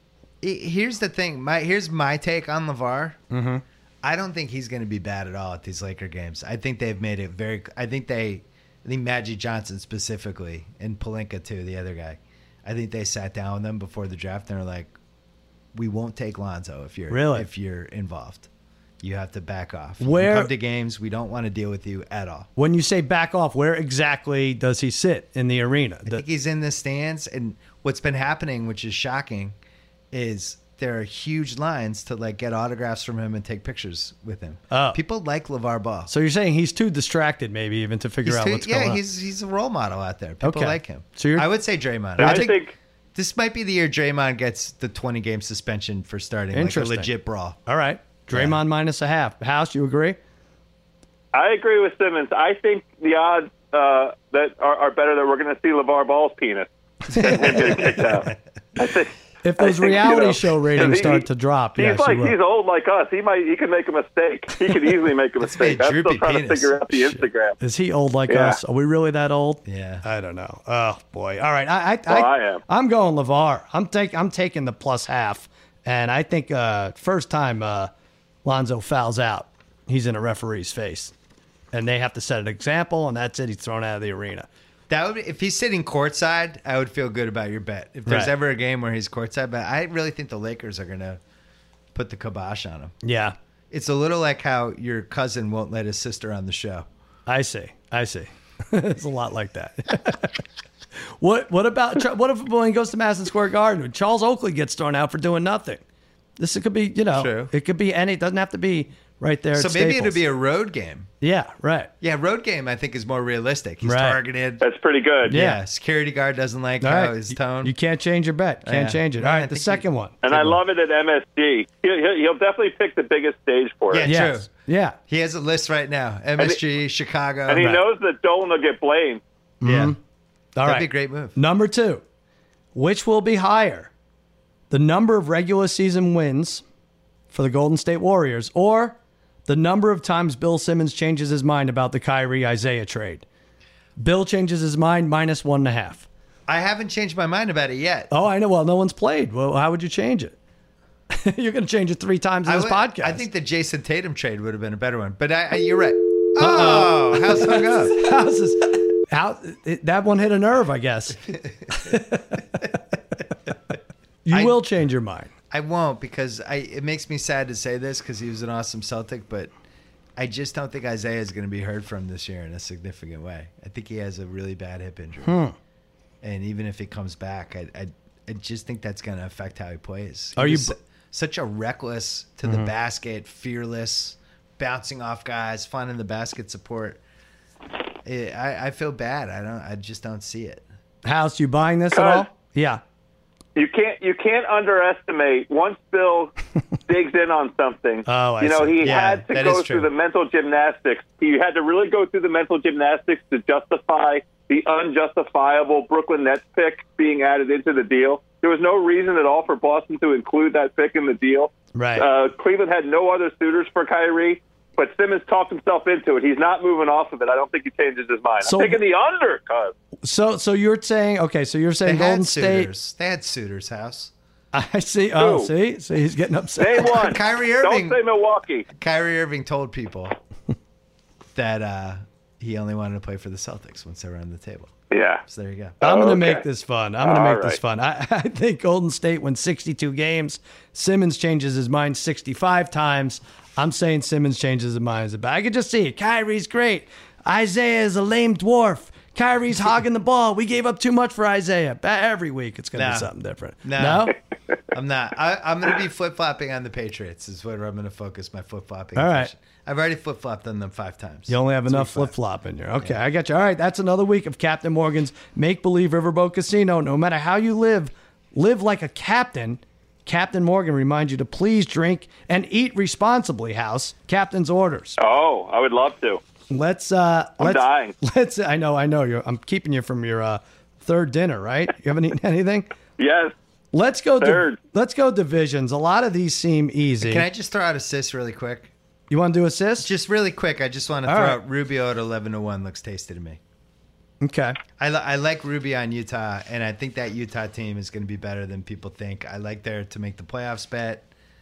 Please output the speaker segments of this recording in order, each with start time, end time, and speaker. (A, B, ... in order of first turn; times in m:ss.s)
0:00.4-0:03.2 A
0:03.3-0:03.6 B
0:04.0-0:14.9 A
0:15.7-0:18.5 A
0:17.1-0:17.5 B
0:19.0-0:22.5 A
0:20.0-0:20.5 B
0:22.6-0:26.2 B
0:26.0-0:29.5 A
0:30.1-0:36.1 A
0:34.7-0:35.0 B
0:36.1-0:39.0 B
0:38.2-0:42.6 A
0:40.4-0:41.5 B
0:42.2-0:42.5 B
0:42.2-0:42.7 C
0:43.1-0:47.6 A
0:46.5-0:47.1 B
0:47.6-0:50.2 B
0:48.3-0:48.6 A
0:51.3-1:01.2 C
0:57.1-0:58.0 B
0:57.3-0:58.0 A
0:59.4-1:02.4 B
1:01.8-1:07.6 C
1:05.4-1:06.8 A
1:07.6-1:17.9 B
1:08.3-1:08.6 C
1:09.6-1:10.0 A
1:12.1-1:12.6 C
1:18.4-1:21.1 B
1:21.7-1:24.5 B
1:24.9-1:31.2 A
1:28.1-1:28.3 B
1:31.9-1:32.9 A
1:33.0-1:33.4 B
1:33.7-1:36.8 A
1:37.3-1:40.4 B
1:41.0-1:45.8 B
1:46.4-1:50.2 B
1:47.1-1:47.5 A
1:49.5-1:51.1 A
1:51.2-1:51.9 B
1:52.0-1:54.6 A
1:53.8-1:54.2 B
1:54.6-1:55.3 C
1:55.2-1:57.7 A
1:55.3-1:55.6 B
1:56.8-2:00.6 B
1:58.6-1:59.8 A
2:00.2-2:04.1 C
2:03.9-2:04.5 A
2:04.0-2:05.0 B
2:05.1-2:07.8 A
2:07.5-2:09.2 C
2:09.6-2:10.0 B
2:09.6-2:10.0 A
2:10.6-2:12.0 B
2:10.6-2:11.4 A
2:12.7-2:13.9 B
2:14.7-2:16.6 B
2:17.3-2:23.2 B
2:24.0-2:26.1 B
2:26.5-2:28.1 A
2:28.1-2:30.3 B
2:31.1-2:33.2 B
2:32.4-2:38.0 A
2:36.4-2:42.8 B
2:41.7-2:42.0 A
2:44.2-2:45.3 B
2:44.3-2:44.6 A
2:45.5-2:49.5 A
2:50.2-2:55.3 A
2:55.2-2:55.5 B
2:56.2-3:07.0 A
3:00.4-3:00.7 B
3:08.0-3:10.6 A
3:11.0-3:12.8 B
3:11.9-3:12.3 C
3:13.5-3:16.3 C
3:16.9-3:39.7 C
3:18.1-3:18.9 B
3:18.8-3:19.9 A
3:31.7-3:32.0 B
3:38.4-3:38.8 B
3:40.0-3:42.7 B
3:41.8-3:44.1 A
3:44.5-3:46.9 B
3:45.2-3:45.5 C
3:46.6-3:48.6 C
3:46.8-3:48.0 A
3:48.7-3:50.1 A
3:51.3-3:54.7 A
3:54.9-3:55.2 C
3:55.2-3:55.8 A
3:55.8-3:56.4 C
3:55.8-4:14.1 B
3:57.0-3:57.6 C
4:12.7-4:13.1 A
4:13.6-4:14.1 A
4:14.7-4:22.1 A
4:19.0-4:19.3 B
4:21.3-4:35.0 B
4:35.0-4:36.2 C
4:36.5-4:42.7 B
4:37.4-4:37.9 C
4:43.0-4:43.3 C
4:43.7-4:47.2 B
4:44.2-4:44.6 C
4:47.0-4:48.7 A
4:49.1-4:49.9 B
4:49.8-4:53.4 A
4:51.0-4:51.4 B
4:54.2-4:54.6 B
4:54.8-5:01.1 A